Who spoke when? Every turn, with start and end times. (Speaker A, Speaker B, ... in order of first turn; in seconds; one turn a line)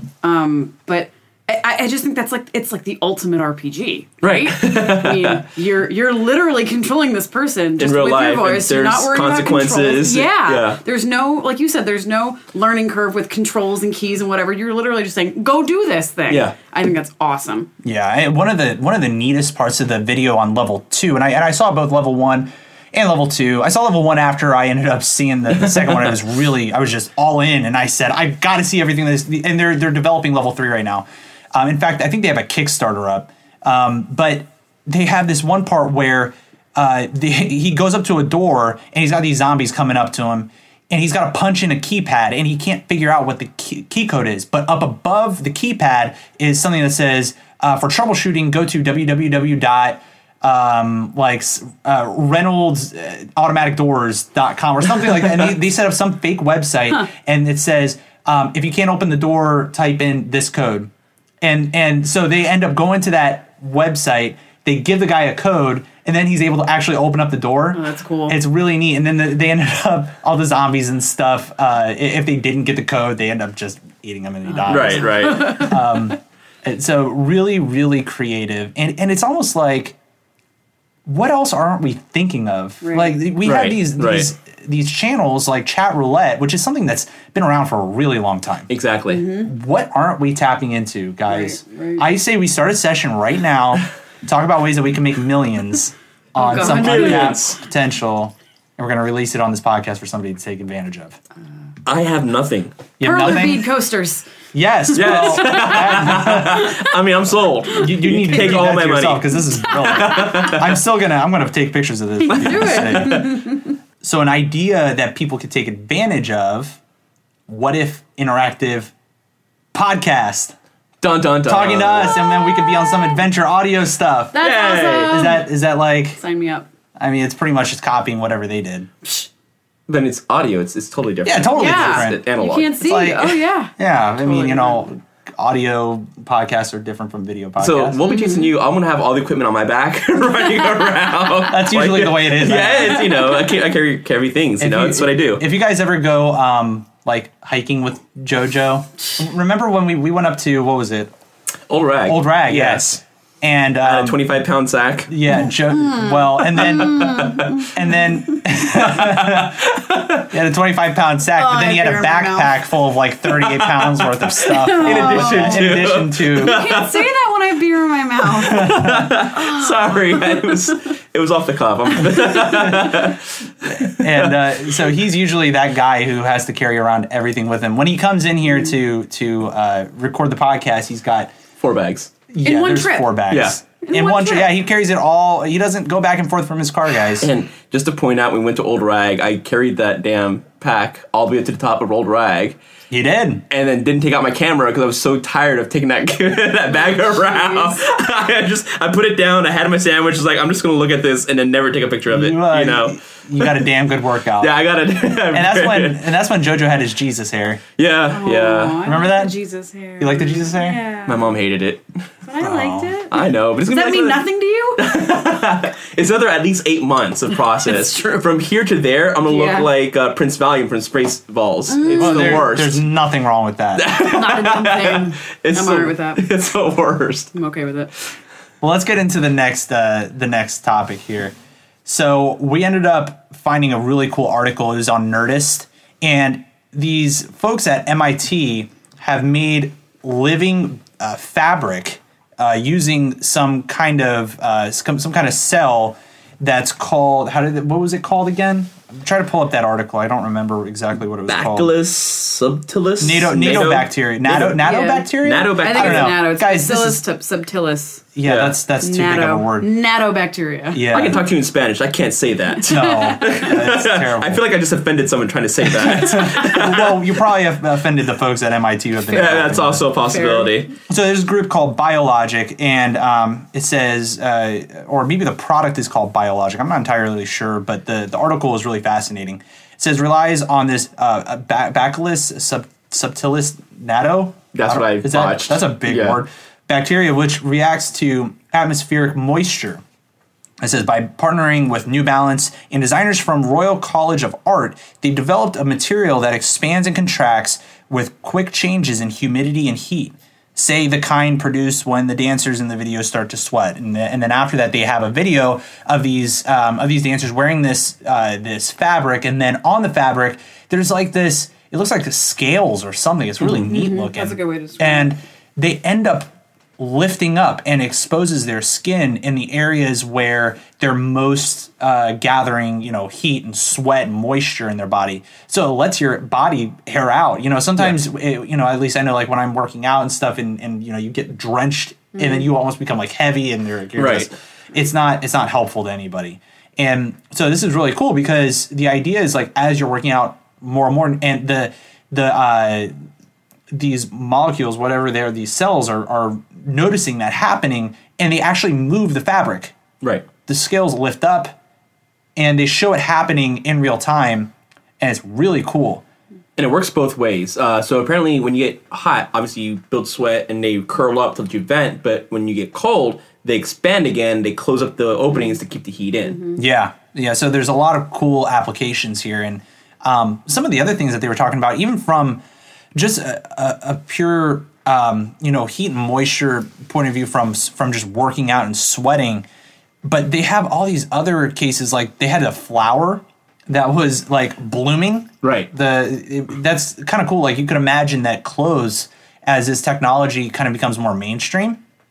Speaker A: 0.2-17.7
Speaker B: 4.2-5.4
Speaker B: 7.8-10.8
Speaker B: 16.3-16.5
Speaker C: 17.8-60.9
Speaker C: 61.4-80.0
Speaker A: 67.7-68.4
Speaker A: 74.5-75.7
Speaker B: 74.7-75.7
Speaker C: 81.0-88.7
Speaker A: 82.8-83.2
Speaker B: 83.4-84.3
Speaker B: 88.7-89.3
Speaker A: 89.1-89.5
Speaker C: 89.4-101.2
Speaker A: 91.3-92.0
Speaker A: 96.4-97.4
Speaker B: 96.5-97.6
Speaker B: 101.8-102.7
Speaker C: 103.0-103.7
Speaker A: 103.0-104.2
Speaker C: 104.5-106.8
Speaker B: 104.9-110.8
Speaker A: 105.0-106.9
Speaker C: 107.7-116.8
Speaker A: 107.8-108.6
Speaker A: 109.6-110.6
Speaker A: 112.2-113.7
Speaker B: 112.3-113.3
Speaker C: 117.5-118.9
Speaker C: 119.7-120.5
Speaker B: 121.0-122.2
Speaker C: 121.5-126.2
Speaker A: 122.2-123.2
Speaker A: 124.3-125.4
Speaker B: 124.3-125.3
Speaker A: 126.2-126.7
Speaker C: 127.0-128.9
Speaker B: 129.9-132.8
Speaker C: 131.2-132.2
Speaker A: 131.5-134.8
Speaker C: 132.8-138.0
Speaker B: 137.6-145.4
Speaker A: 138.0-138.5
Speaker C: 141.5-143.2
Speaker C: 144.6-151.1
Speaker B: 151.7-153.0
Speaker C: 152.1-154.2
Speaker B: 153.8-155.1
Speaker C: 155.1-166.7
Speaker A: 155.7-157.7
Speaker B: 156.6-157.7
Speaker B: 158.7-160.3
Speaker A: 161.3-162.6
Speaker B: 163.3-167.0
Speaker A: 164.4-170.5
Speaker B: 168.4-174.4
Speaker C: 168.5-169.3
Speaker C: 172.4-173.0
Speaker C: 173.6-181.3
Speaker B: 181.6-182.1
Speaker C: 182.3-187.3
Speaker A: 182.4-183.2
Speaker B: 183.3-183.6
Speaker A: 183.8-184.5
Speaker B: 187.2-192.6
Speaker C: 192.9-193.4
Speaker B: 193.5-203.7
Speaker A: 196.7-197.8
Speaker C: 202.1-207.6
Speaker B: 204.4-206.0
Speaker B: 207.8-208.8
Speaker A: 208.1-211.3
Speaker C: 208.8-209.3
Speaker C: 210.0-210.8
Speaker B: 211.1-211.8
Speaker A: 212.2-215.0
Speaker C: 212.4-212.9
Speaker B: 213.1-214.2
Speaker B: 214.8-222.8
Speaker A: 217.6-218.3
Speaker A: 219.3-219.7
Speaker A: 221.7-222.5
Speaker C: 221.9-223.9
Speaker B: 223.8-227.3
Speaker A: 223.9-226.2
Speaker A: 227.3-227.9
Speaker C: 228.6-231.3
Speaker C: 231.8-251.7
Speaker B: 251.3-256.2
Speaker C: 253.0-257.0
Speaker A: 254.6-258.1
Speaker C: 258.1-259.7
Speaker B: 258.2-258.6
Speaker A: 258.8-260.9
Speaker C: 260.7-261.2
Speaker B: 260.9-267.1
Speaker C: 262.7-264.4
Speaker A: 262.7-263.4
Speaker C: 265.6-269.9
Speaker B: 269.1-270.7
Speaker A: 270.1-270.5
Speaker C: 270.9-289.8
Speaker B: 284.5-286.2
Speaker C: 290.6-342.9
Speaker A: 313.5-315.1
Speaker B: 334.0-334.3
Speaker C: 343.7-349.8
Speaker C: 350.4-351.6
Speaker C: 352.4-356.0
Speaker B: 356.6-366.4
Speaker C: 366.6-372.4
Speaker C: 372.9-379.4
Speaker C: 380.0-391.8
Speaker B: 385.4-385.7